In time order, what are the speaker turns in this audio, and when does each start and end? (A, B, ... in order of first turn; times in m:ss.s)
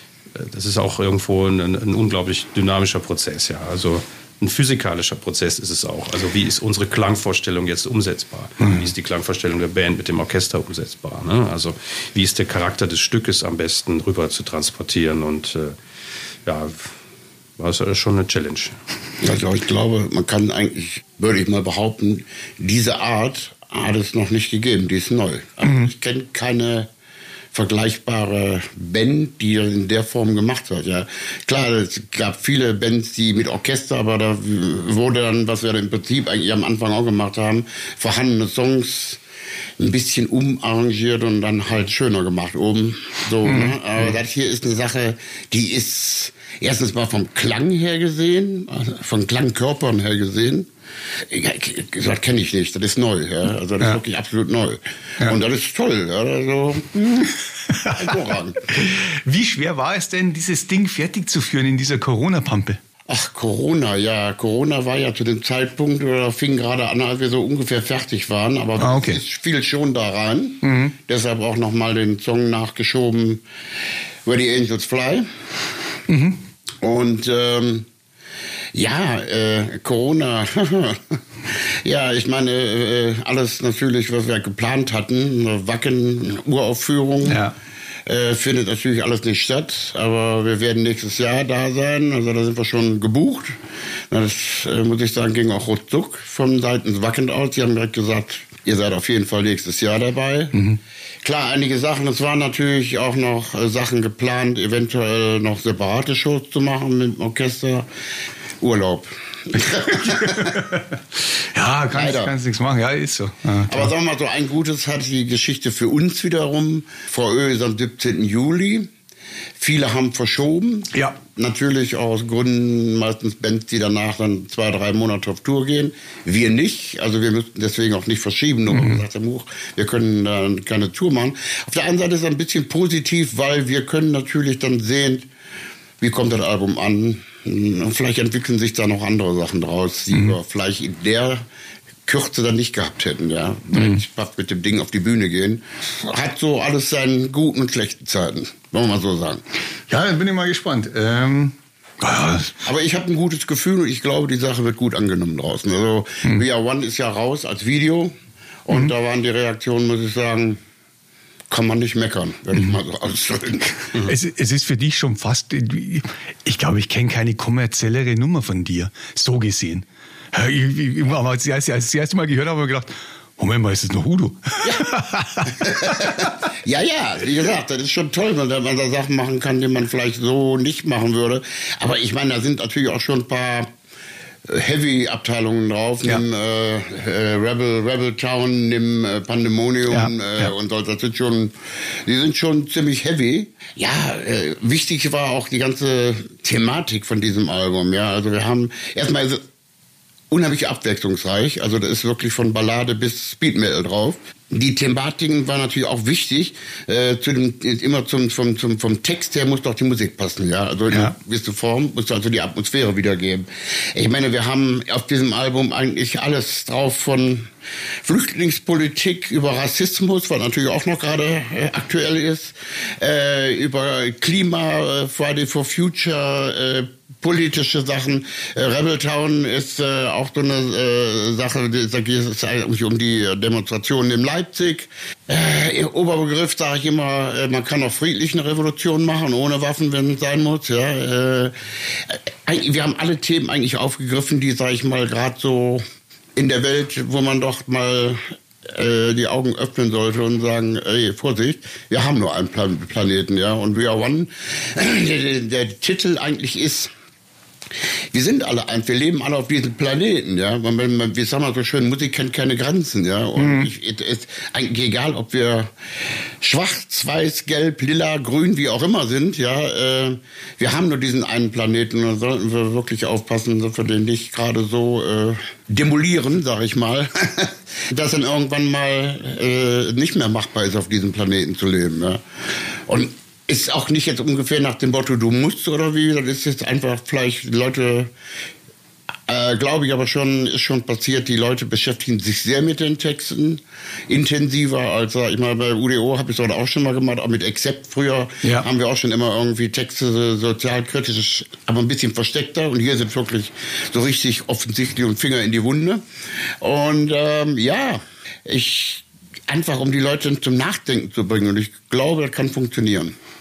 0:00.3-0:15.7 A
0:16.4-0:16.9 A
0:17.6-0:18.8 A
0:19.2-0:26.9 B
0:25.6-0:25.9 C
0:27.5-0:39.2 B
0:39.8-0:50.7 B
0:43.4-0:43.8 C
0:51.3-0:58.6 B
0:57.7-1:02.8 C
1:03.1-1:13.4 B
1:08.8-1:09.2 C
1:10.6-1:11.0 C
1:14.2-1:15.3 B
1:16.1-1:16.4 C
1:16.8-1:17.9 B
1:18.7-1:27.4 B
1:27.2-1:27.5 C
1:28.0-1:33.6 B
1:34.1-1:40.6 B
1:40.5-1:40.8 C
1:41.2-1:47.9 B
1:48.6-1:50.6 B
1:49.8-1:53.9 C
1:51.9-1:52.3 B
1:53.7-1:58.9 B
1:59.6-2:15.3 B
2:00.9-2:01.2 C
2:08.7-2:09.0 C
2:16.0-2:21.4 B
2:22.0-2:29.4 B
2:23.7-2:24.0 C
2:29.9-2:32.5 C
2:32.6-2:38.1 B
2:38.6-2:40.6 B
2:41.5-2:44.1 B
2:43.9-2:56.2 C
2:55.4-3:03.7 B
3:04.4-3:19.4 B
3:09.9-3:10.5 C
3:20.3-3:37.5 B
3:38.0-4:05.8 B
4:06.4-4:16.9 B
4:18.1-4:25.7 B
4:23.4-4:23.7 C
4:26.4-4:42.2 B
4:42.9-4:48.1 B
4:49.3-5:06.0 B
5:06.6-5:13.1 B